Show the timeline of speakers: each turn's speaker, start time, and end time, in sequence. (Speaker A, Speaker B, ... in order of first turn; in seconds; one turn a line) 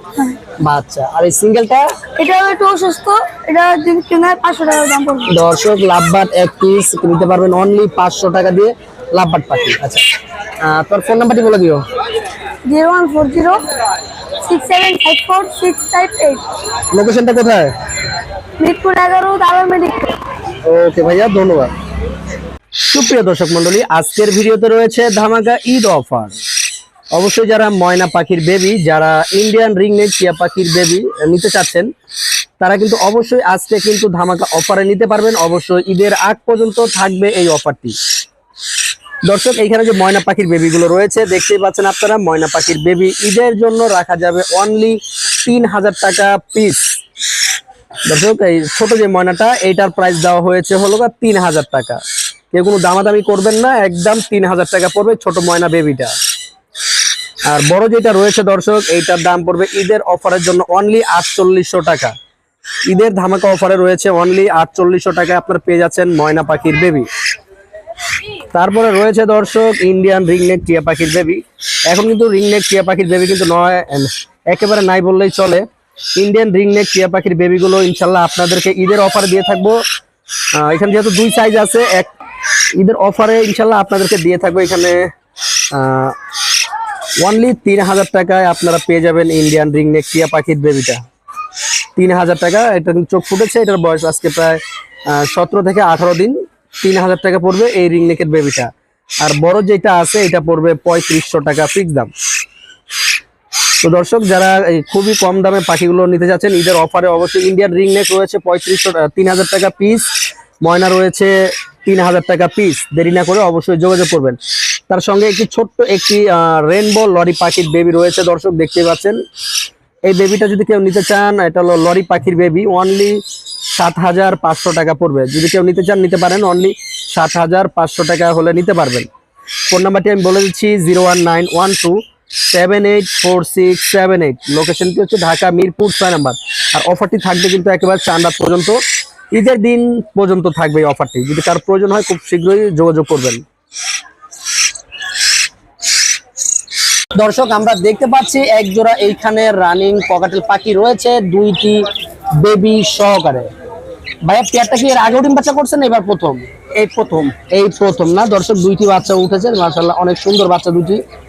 Speaker A: 0.6-1.9
Speaker B: 2.1-5.3
Speaker A: 5.3-10.0
Speaker A: 10.6-11.8
Speaker B: 12.7-13.7
Speaker B: 14.4-16.4
Speaker A: 16.9-17.7
Speaker B: 18.6-20.1
Speaker A: 20.6-21.7
Speaker A: 22.8-26.4
Speaker A: 27.1-31.9
Speaker A: 32.6-38.0
Speaker A: 39.2-47.0
Speaker A: 48.1-52.0
Speaker A: 52.5-56.1
Speaker A: 57.5-62.1
Speaker A: 62.9-67.1
Speaker A: 68.5-75.6
Speaker A: 76.2-79.8
Speaker A: 80.5-82.1
Speaker A: 82.8-85.1
Speaker A: 85.7-86.2
Speaker A: 87.2-91.0
Speaker A: 92.0-98.7
Speaker A: 99.2-102.1
Speaker A: 103.8-110.1
Speaker A: 110.6-114.4
Speaker A: 114.9-119.2
Speaker A: 120.0-129.1
Speaker A: 129.7-132.0
Speaker A: 132.5-138.8
Speaker A: 139.3-143.4
Speaker A: 147.2-151.8
Speaker A: 152.4-153.5
Speaker A: 154.2-161.0